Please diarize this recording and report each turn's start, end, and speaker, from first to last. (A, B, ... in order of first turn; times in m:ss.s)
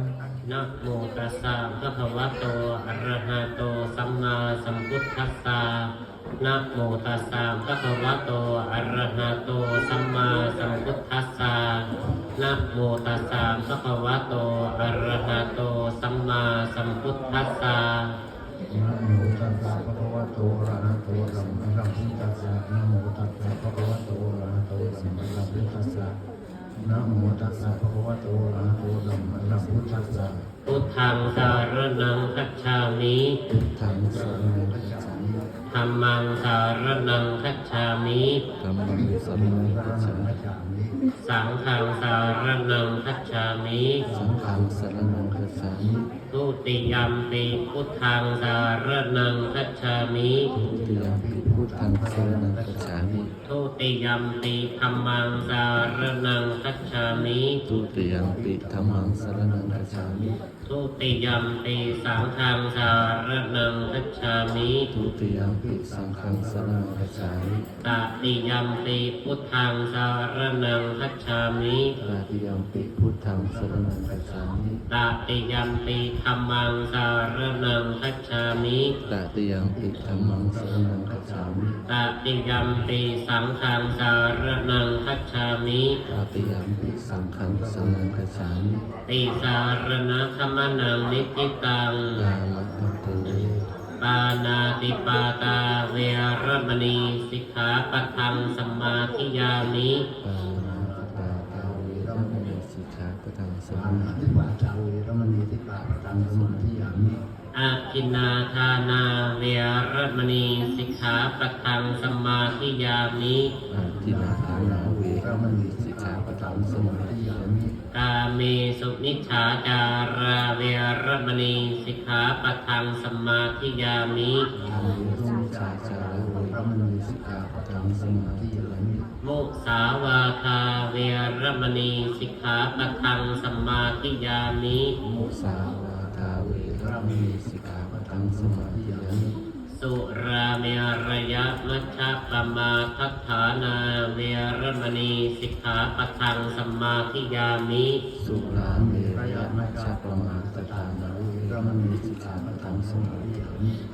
0:00.4-0:18.2 A
0:18.7-0:26.2 B
0:20.6-0:22.6 C
0:24.8-0:25.6 C
0:26.8-0:30.3 B
0:29.2-0:30.5 C
0:30.7-0:33.4 A
0:33.5-0:35.2 C
0:34.1-0:35.5 B
0:35.7-0:38.4 A
0:38.6-0:40.4 C
0:38.9-0:41.0 B
0:41.2-0:44.1 A
0:44.0-0:46.1 B
0:44.1-0:46.0 C
0:46.3-0:50.5 A
0:50.5-0:53.3 C
0:50.6-0:53.3 B
0:53.4-0:57.6 A
0:57.7-1:00.3 C
0:57.9-1:00.4 B
1:00.7-1:04.9 A
1:04.9-1:07.7 C
1:05.1-1:07.6 B
1:07.8-1:12.0 A
1:12.0-1:14.8 B
1:12.0-1:14.7 C
1:14.9-1:19.0 A
1:19.0-1:21.6 C
1:19.6-1:21.8 B
1:21.9-1:26.0 A
1:26.1-1:28.7 C
1:26.3-1:28.8 B
1:29.1-1:32.3 A
1:32.1-1:33.6 C
1:33.2-1:33.7 B
1:34.0-1:40.1 A
1:40.2-1:44.3 C
1:40.5-1:42.5 B
1:43.7-1:47.2 B
1:47.5-1:53.6 A
1:53.7-1:57.6 C
1:53.8-1:57.8 B
1:57.9-2:04.5 A
2:04.6-2:08.9 C
2:04.6-2:09.1 B
2:09.2-2:15.0 A
2:15.0-2:19.4 B
2:15.1-2:19.3 C
2:19.7-2:28.0 A
2:28.2-2:33.6 C
2:28.4-2:33.8 B